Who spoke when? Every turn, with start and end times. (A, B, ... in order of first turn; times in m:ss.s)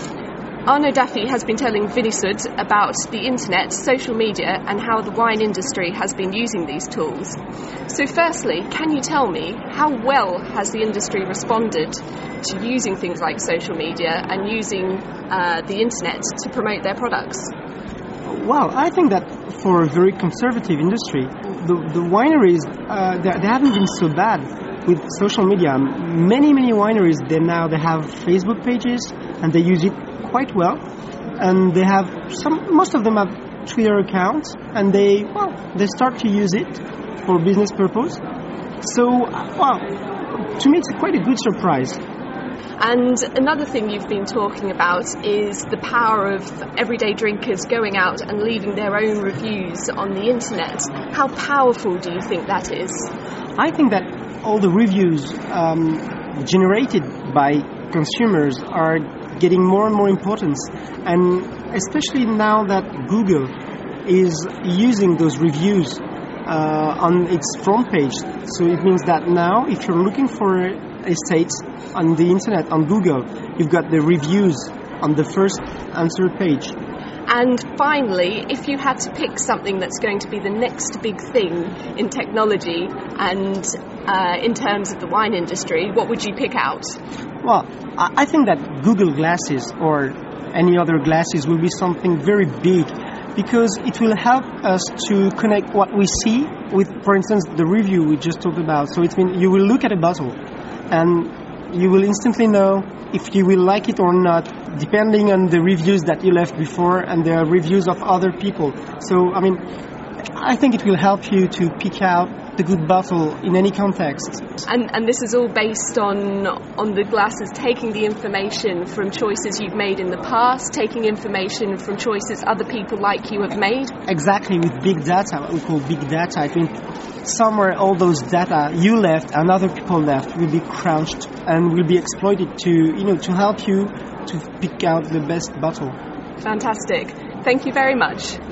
0:00.7-0:17.5 A
0:18.2-0:30.8 B
0:31.4-0:38.2 B
0:38.8-0:42.0 B
0:42.8-0:53.1 A
0:53.6-1:03.5 B
1:04.0-1:16.7 B
1:17.3-1:26.9 A
1:27.4-1:40.4 B
1:40.9-1:49.6 B
1:50.4-1:54.4 B
1:54.6-2:03.9 A
2:04.1-2:16.0 B
2:16.4-2:18.4 A